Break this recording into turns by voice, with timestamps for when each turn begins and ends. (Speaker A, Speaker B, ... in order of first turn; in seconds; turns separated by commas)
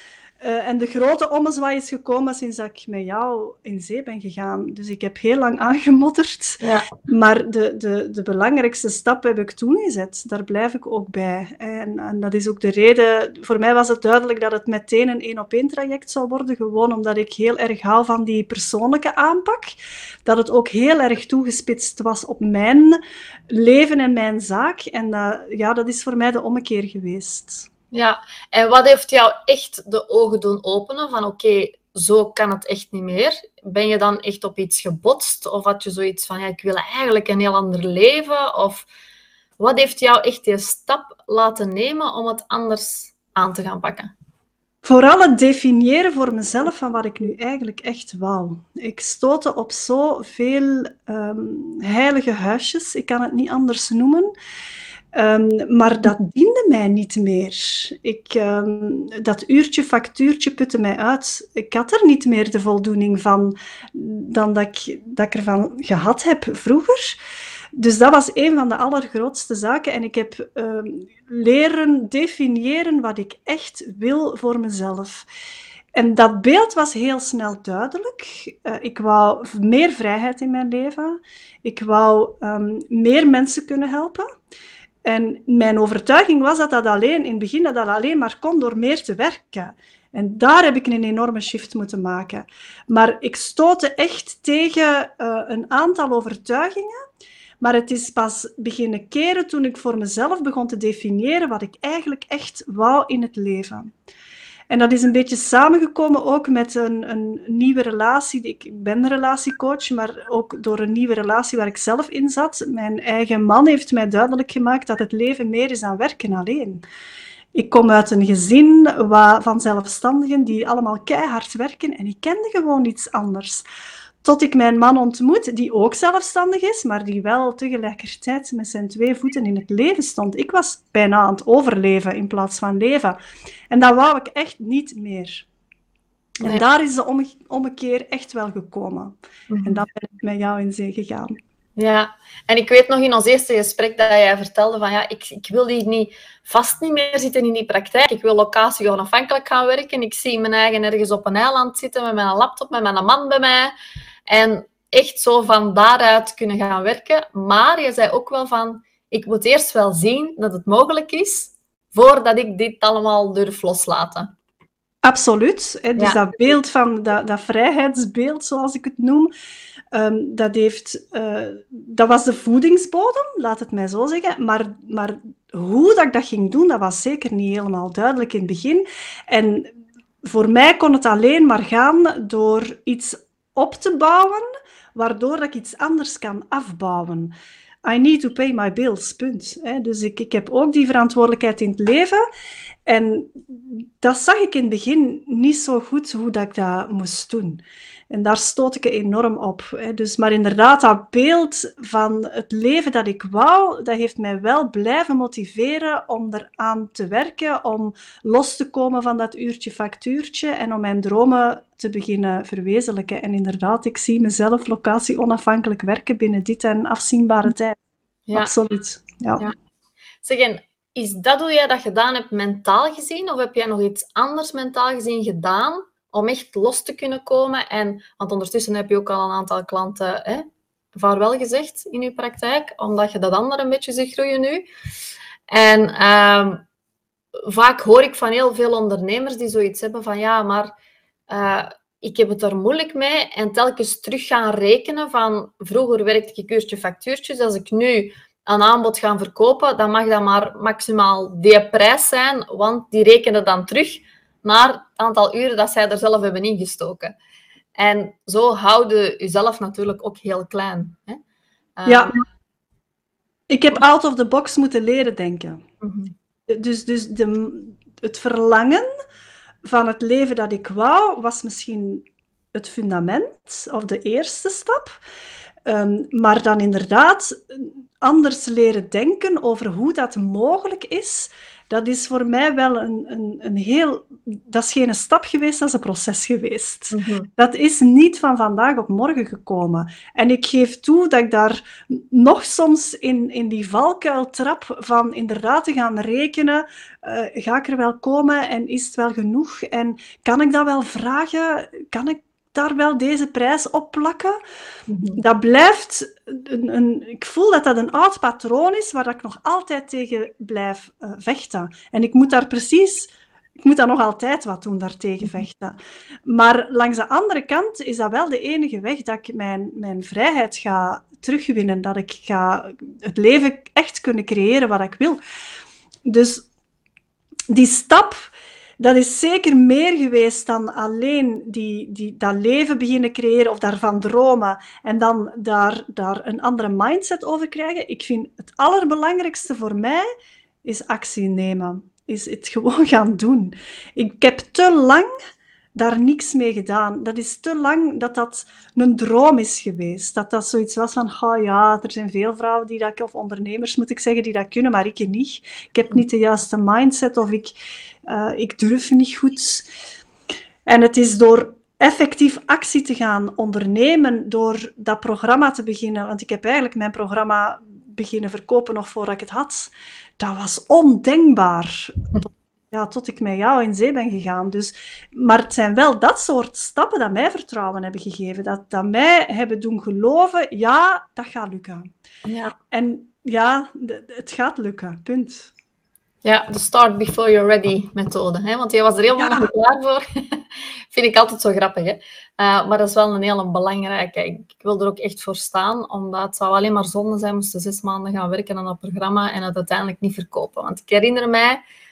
Speaker A: 0.4-23.0, Speaker B: 6.6-6.9, Speaker A: 23.5-27.7, Speaker B: 27.9-38.9, Speaker B: 39.6-44.1, Speaker A: 44.8-54.3, Speaker A: 55.1-67.2, Speaker A: 67.8-75.3, Speaker A: 76.0-84.2, Speaker A: 85.0-97.0, Speaker A: 97.6-103.9, Speaker A: 104.7-116.8, Speaker A: 117.5-123.6, Speaker A: 124.2-133.2, Speaker A: 133.7-135.5, Speaker A: 136.4-141.3, Speaker B: 139.5-139.8, Speaker B: 141.8-153.7, Speaker B: 154.3-164.3, Speaker A: 165.0-169.3, Speaker A: 169.9-187.3, Speaker A: 187.8-192.2, Speaker A: 192.9-217.8, Speaker B: 218.3-218.5, Speaker A: 218.3-219.5, Speaker B: 220.2-234.7, Speaker B: 235.5-236.6, Speaker B: 237.4-240.7, Speaker B: 241.3-257.1, Speaker B: 257.8-261.2, Speaker B: 261.8-262.2, Speaker A: 261.9-262.1, Speaker A: 263.5-265.6, Speaker B: 265.8-266.1, Speaker A: 266.5-268.9, Speaker A: 269.6-275.0, Speaker A: 275.7-304.4, Speaker B: 286.9-287.3, Speaker B: 304.9-305.2, Speaker A: 305.2-325.2, Speaker A: 326.1-326.5, Speaker A: 327.5-340.0, Speaker A: 340.6-345.1, Speaker A: 345.8-357.6, Speaker A: 358.1-359.7, Speaker A: 360.7-381.9, Speaker B: 382.3-382.5, Speaker A: 382.7-385.5, Speaker B: 386.2-401.6, Speaker A: 389.2-389.5